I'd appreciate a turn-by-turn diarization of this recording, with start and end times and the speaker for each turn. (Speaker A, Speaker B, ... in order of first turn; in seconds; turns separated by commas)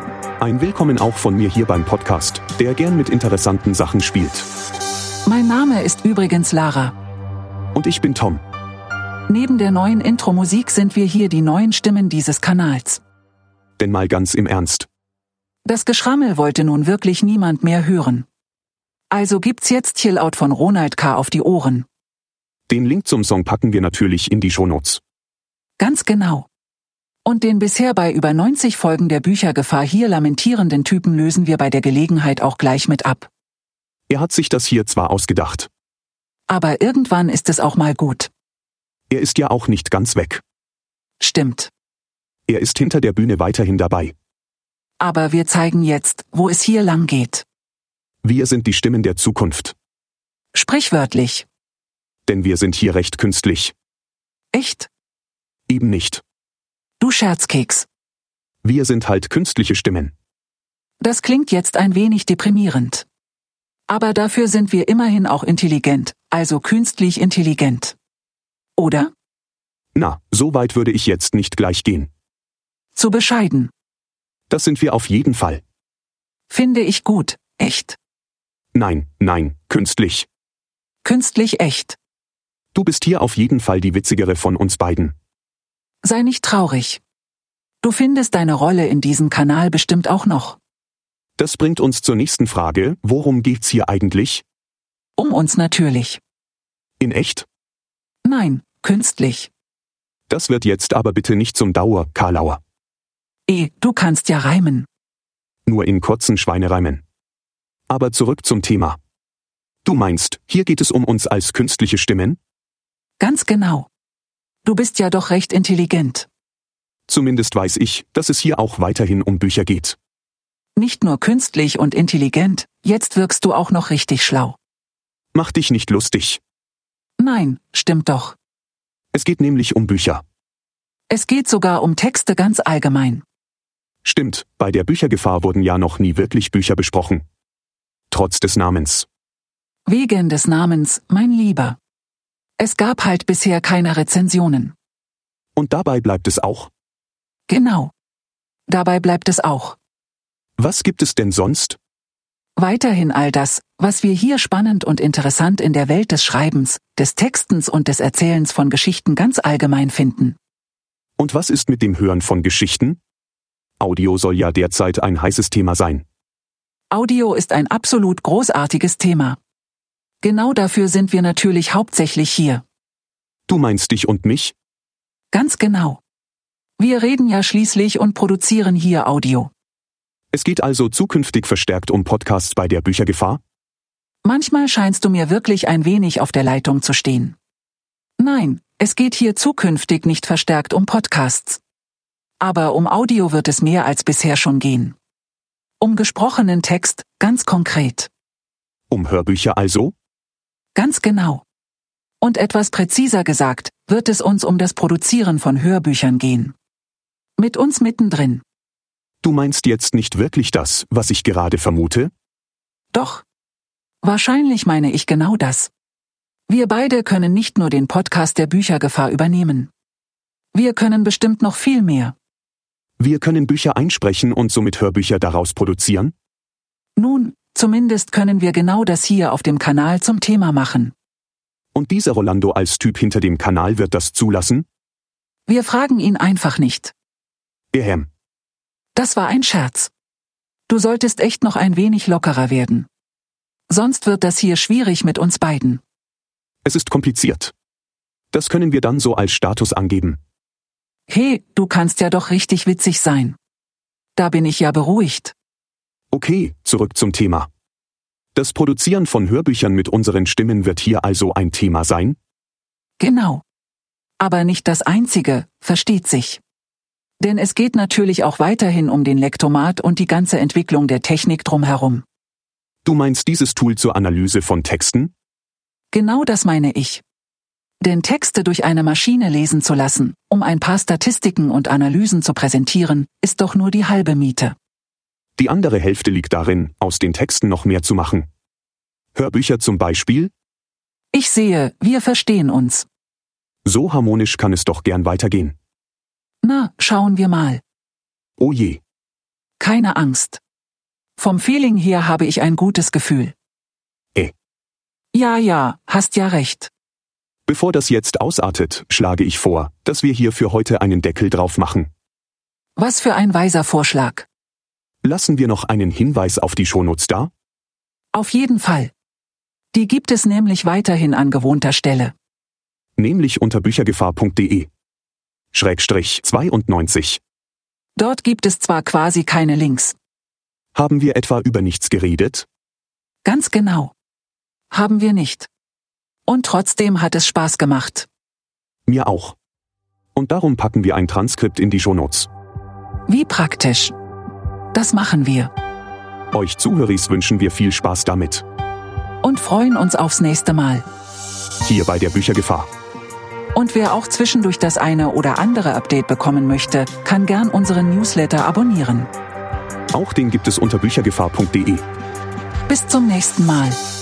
Speaker A: 0.4-4.5, Speaker B: 5.2-6.9, Speaker A: 7.7-8.4, Speaker B: 9.3-13.0, Speaker A: 13.8-14.9, Speaker B: 15.6-18.3, Speaker B: 19.1-21.9, Speaker A: 22.7-25.0, Speaker B: 25.8-26.5, Speaker B: 27.2-33.3, Speaker A: 34.1-35.7, Speaker B: 36.5-38.3, Speaker A: 39.1-40.4, Speaker B: 41.2-41.7, Speaker A: 42.5-44.1, Speaker B: 45.0-47.4, Speaker A: 48.2-49.7, Speaker B: 50.5-51.5, Speaker A: 52.2-53.7, Speaker B: 54.5-54.9, Speaker A: 55.7-56.2, Speaker B: 57.0-57.9, Speaker A: 58.6-60.1, Speaker B: 61.0-63.0, Speaker B: 63.9-68.0, Speaker B: 68.8-69.1, Speaker A: 69.9-72.1, Speaker B: 72.9-73.7, Speaker A: 74.5-75.6, Speaker B: 76.5-78.0, Speaker A: 78.7-80.3, Speaker B: 81.0-82.0, Speaker A: 82.7-85.1, Speaker B: 86.0-87.0, Speaker B: 87.8-90.6, Speaker A: 91.4-94.4, Speaker B: 95.2-96.2, Speaker A: 97.0-97.5, Speaker B: 98.2-99.5, Speaker A: 100.3-102.6, Speaker B: 103.5-104.9, Speaker A: 105.7-107.0, Speaker A: 107.9-109.0, Speaker A: 109.8-112.4, Speaker B: 113.2-113.9, Speaker B: 114.6-116.3, Speaker A: 117.1-120.0, Speaker B: 120.8-124.6, Speaker A: 125.3-126.4, Speaker B: 127.2-128.4, Speaker A: 129.1-130.2, Speaker B: 131.1-133.2, Speaker A: 134.0-137.2, Speaker A: 138.1-139.1, Speaker B: 139.8-141.8, Speaker B: 142.6-144.7, Speaker A: 145.6-146.7, Speaker B: 147.5-147.9, Speaker B: 148.7-149.8, Speaker A: 150.6-151.8, Speaker B: 152.6-160.4, Speaker A: 161.2-163.0, Speaker A: 163.8-166.0, Speaker B: 166.9-169.4, Speaker B: 170.2-172.6, Speaker A: 173.5-174.5, Speaker B: 175.3-176.0, Speaker B: 176.8-179.5, Speaker A: 180.3-183.4, Speaker B: 184.2-187.3, Speaker B: 188.2-191.6, Speaker B: 192.4-194.9, Speaker B: 195.8-198.1, Speaker A: 198.9-199.9, Speaker B: 200.7-201.4, Speaker B: 202.2-206.5, Speaker B: 207.4-208.4, Speaker A: 209.2-212.1, Speaker B: 212.9-213.2, Speaker B: 214.0-215.7, Speaker B: 216.5-219.7, Speaker B: 220.5-222.1, Speaker A: 223.0-226.1, Speaker B: 227.0-230.9, Speaker A: 231.7-234.7, Speaker B: 235.5-236.9, Speaker A: 237.7-238.1, Speaker B: 238.9-239.9, Speaker B: 240.7-242.9, Speaker B: 243.7-245.8, Speaker A: 246.6-247.5, Speaker A: 248.3-250.2, Speaker B: 251.1-253.4, Speaker B: 254.2-255.3, Speaker A: 256.1-257.5, Speaker A: 258.3-262.2, Speaker B: 263.0-263.4, Speaker B: 264.2-266.4, Speaker B: 267.2-272.0, Speaker A: 272.8-275.1, Speaker B: 275.9-277.0, Speaker B: 277.8-284.5, Speaker A: 285.4-288.3, Speaker A: 289.1-290.3, Speaker B: 291.1-292.9, Speaker A: 293.6-295.6, Speaker B: 296.4-297.6, Speaker A: 298.4-298.8, Speaker B: 299.6-300.4, Speaker B: 301.2-303.3, Speaker B: 305.1-306.7, Speaker A: 307.4-311.9, Speaker B: 312.8-314.3, Speaker A: 315.0-317.3, Speaker B: 318.1-318.9, Speaker B: 319.7-322.1, Speaker A: 323.0-324.7, Speaker A: 325.5-327.2, Speaker B: 327.9-330.0, Speaker A: 330.7-332.5, Speaker B: 333.2-333.9, Speaker B: 334.7-335.5, Speaker B: 336.2-338.1, Speaker A: 338.9-339.3, Speaker A: 340.1-342.3, Speaker B: 343.1-343.9, Speaker B: 344.7-345.5, Speaker A: 346.3-348.4, Speaker B: 349.2-350.9, Speaker A: 351.6-352.7, Speaker B: 353.5-359.1, Speaker A: 359.9-361.8, Speaker B: 362.7-363.8